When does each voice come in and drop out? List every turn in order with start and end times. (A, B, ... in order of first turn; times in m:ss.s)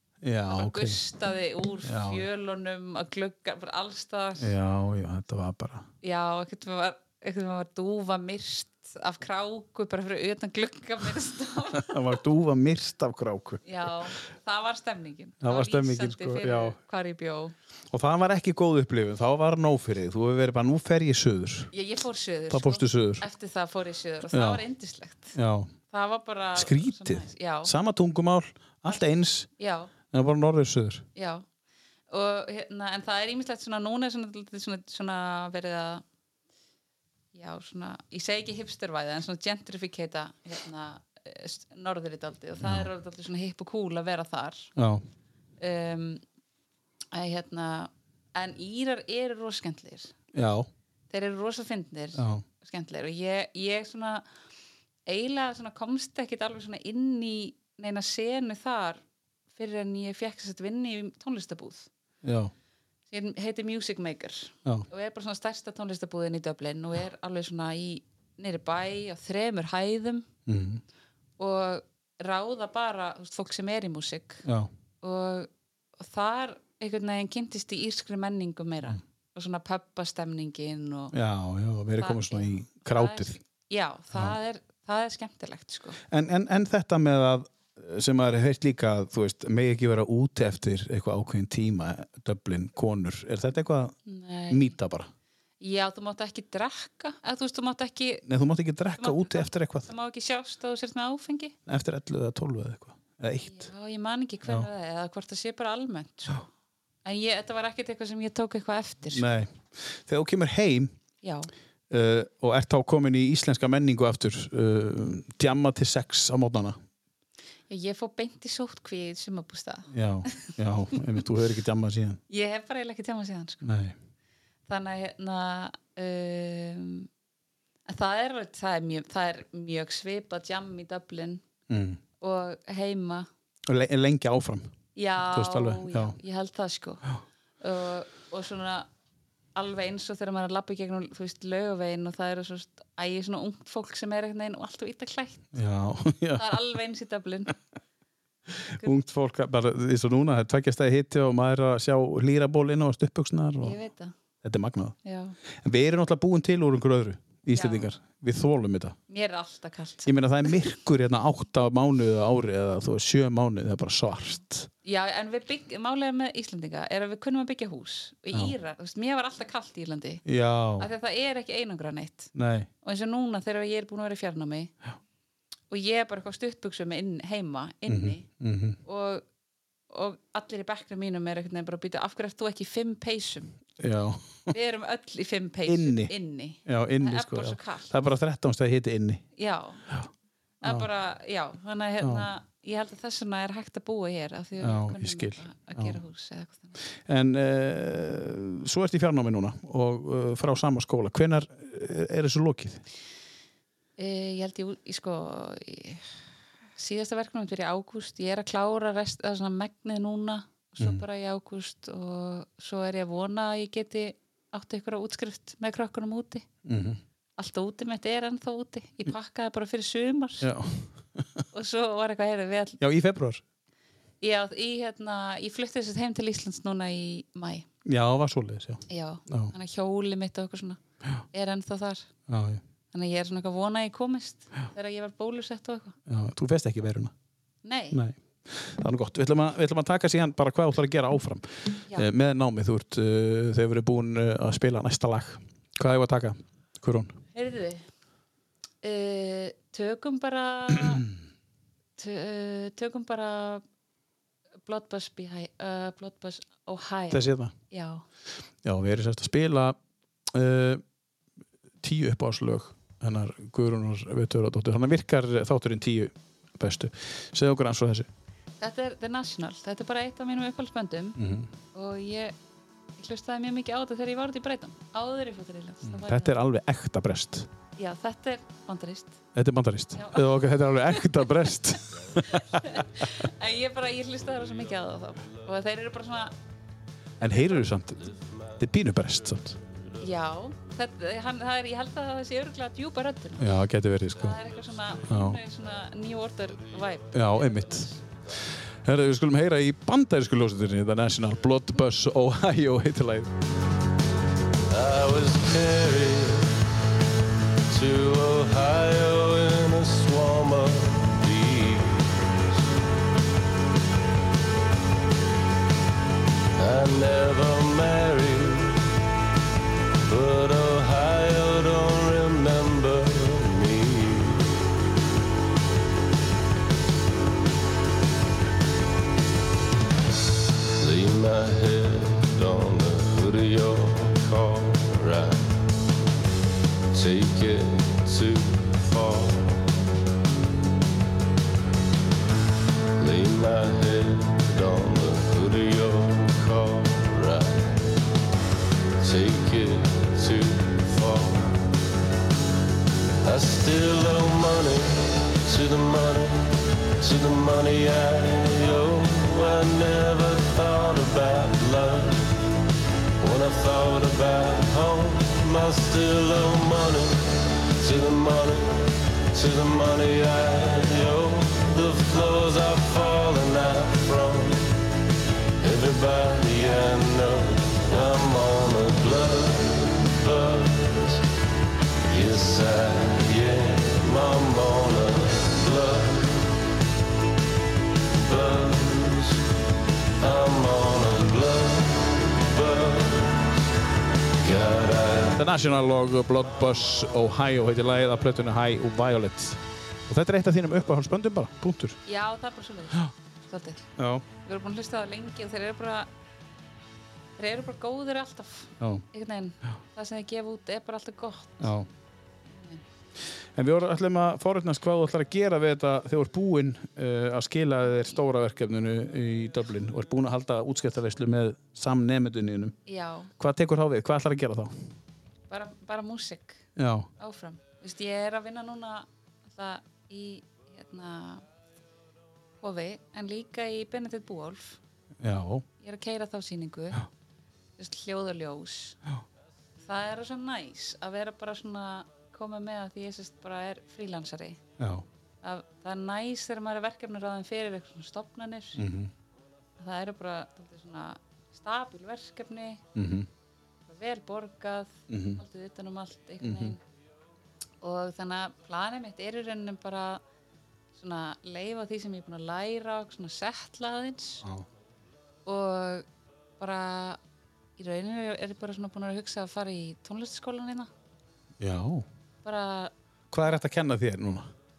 0:00.2-0:01.0 A
0:00.5-0:04.5 B
0:01.8-0:02.2 A
0:04.4-0:05.8 A
0:06.0-0:12.0 B
0:11.7-0:14.0 A
0:13.6-0:17.5 B
0:15.4-0:16.8 A
0:17.9-0:21.7 A
0:21.7-0:25.4 B
0:22.5-0:23.2 A
0:24.3-0:24.6 A
0:25.3-0:25.7 A
0:25.9-0:27.7 B
0:26.5-0:29.5 A
0:29.6-0:29.9 B
0:30.1-0:31.0 A
0:31.2-0:31.4 B
0:32.1-0:36.0 B
0:37.3-0:44.7 B
0:42.6-0:42.9 A
0:44.8-0:45.0 A
0:45.6-0:46.2 B
0:47.1-0:50.1 B
0:50.3-0:50.7 A
0:51.1-0:54.2 B
0:52.2-0:52.4 A
0:55.1-0:59.0 B
0:59.5-1:01.9 B
1:02.2-1:02.5 A
1:03.1-1:10.3 B
1:10.4-1:10.8 A
1:11.4-1:14.4 B
1:14.4-1:14.7 A
1:15.0-1:21.1 B
1:21.1-1:23.4 A
1:22.0-1:26.0 B
1:26.1-1:34.0 A
1:34.0-1:34.8 B
1:34.5-1:35.1 A
1:35.6-1:38.2 B
1:38.2-1:39.9 A
1:39.0-1:41.5 B
1:41.6-1:43.7 A
1:43.4-1:46.5 B
1:47.0-1:49.3 B
1:49.1-1:50.9 A
1:51.2-1:51.5 B
1:51.9-1:56.8 A
1:57.7-2:00.5 B
1:59.9-2:02.2 A
2:02.3-2:03.7 B
2:03.6-2:04.0 A
2:04.7-2:07.1 B
2:07.9-2:11.4 B
2:11.7-2:12.0 A
2:12.2-2:13.3 B
2:13.7-2:14.7 A
2:15.0-2:17.0 B
2:15.2-2:16.2 A
2:17.6-2:18.9 B
2:19.5-2:25.5 B
2:25.5-2:26.6 A
2:26.4-2:27.6 B
2:28.6-2:33.8 A
2:33.6-2:34.1 B
2:34.4-2:35.0 A
2:35.0-2:35.4 B
2:35.6-2:39.0 A
2:37.5-2:37.9 B
2:39.1-2:40.5 B
2:40.0-2:44.7 A
2:44.8-2:50.2 B
2:50.2-2:50.9 A
2:50.8-2:54.7 B
2:52.3-2:52.7 A
2:55.7-2:58.3 B
2:57.9-2:58.8 A
2:58.8-2:59.2 B
2:59.9-3:03.6 B
3:03.8-3:04.5 A
3:04.5-3:07.9 B
3:05.7-3:06.1 A
3:06.6-3:09.2 A
3:09.4-3:09.8 B
3:10.6-3:16.8 B
3:12.0-3:12.3 A
3:14.6-3:16.0 A
3:17.0-3:22.8 A
3:24.0-3:26.0 B
3:26.8-3:36.4 B
3:36.6-3:37.0 A
3:37.4-3:40.5 B
3:40.4-3:41.4 A
3:41.5-3:42.8 B
3:42.8-3:43.4 A
3:44.2-3:47.7 B
3:47.8-3:49.5 A
3:48.9-3:50.8 B
3:51.3-3:52.1 B
3:52.3-3:52.6 A
3:52.9-3:56.0 B
3:56.1-3:57.1 A
3:57.6-3:58.0 B
3:57.9-4:07.2 A
4:07.3-4:07.8 B
4:08.8-4:11.1 B
4:12.0-4:13.6 B
4:14.6-4:18.0 B
4:17.1-4:17.5 A
4:18.6-4:19.8 A
4:20.3-4:20.8 A
4:21.8-4:28.1 A
4:28.6-4:31.2 B
4:31.2-4:31.5 A
4:31.7-4:32.3 B
4:33.0-4:36.4 B
4:35.8-4:37.5 A
4:37.8-4:39.2 B
4:39.3-4:43.1 A
4:39.9-4:46.3 B
4:47.2-4:49.6 A
4:48.0-4:48.3 C
4:50.0-4:53.5 B
4:53.4-4:54.4 A
4:54.1-4:58.0 B
4:55.0-4:55.4 A
4:57.1-4:57.9 A
4:58.8-5:03.3 A
5:04.7-5:06.6 C
5:07.7-5:12.6 C
5:16.6-5:18.9 C
5:20.0-5:24.6 C
5:30.8-5:35.6 C
5:36.9-5:39.7 C
5:43.0-5:48.0 C
5:49.0-5:51.7 C
5:53.2-6:02.4 C
6:03.2-6:14.8 C
6:15.6-6:21.2 C
6:22.1-6:26.5 C
6:28.1-6:29.5 C
6:30.2-6:33.5 C
6:34.4-6:35.4 C
6:35.3-6:42.0 A
6:42.0-6:43.9 B
6:44.0-6:44.2 A
6:44.4-6:46.1 B
6:47.4-6:51.8 B
6:51.6-6:51.9 A
6:52.5-6:52.8 B
6:53.5-7:02.8 A
7:02.8-7:03.3 B
7:03.4-7:04.7 A
7:05.5-7:06.7 B
7:06.8-7:07.1 A
7:07.2-7:11.4 B
7:12.6-7:14.8 B
7:15.2-7:15.6 A
7:15.8-7:17.0 B
7:17.8-7:19.0 B
7:19.8-7:24.6 B
7:24.8-7:25.0 A
7:25.4-7:28.8 B
7:28.8-7:29.1 A
7:29.8-7:32.8 B
7:33.0-7:33.3 A
7:33.9-7:36.8 B
7:35.1-7:35.4 A
7:36.4-7:36.8 A
7:37.8-7:40.2 B
7:41.0-7:44.4 B
7:45.4-7:46.0 B
7:46.6-7:47.2 B
7:47.8-7:50.9 B
7:51.6-7:52.0 A
7:52.4-7:52.9 B
7:53.3-7:54.5 A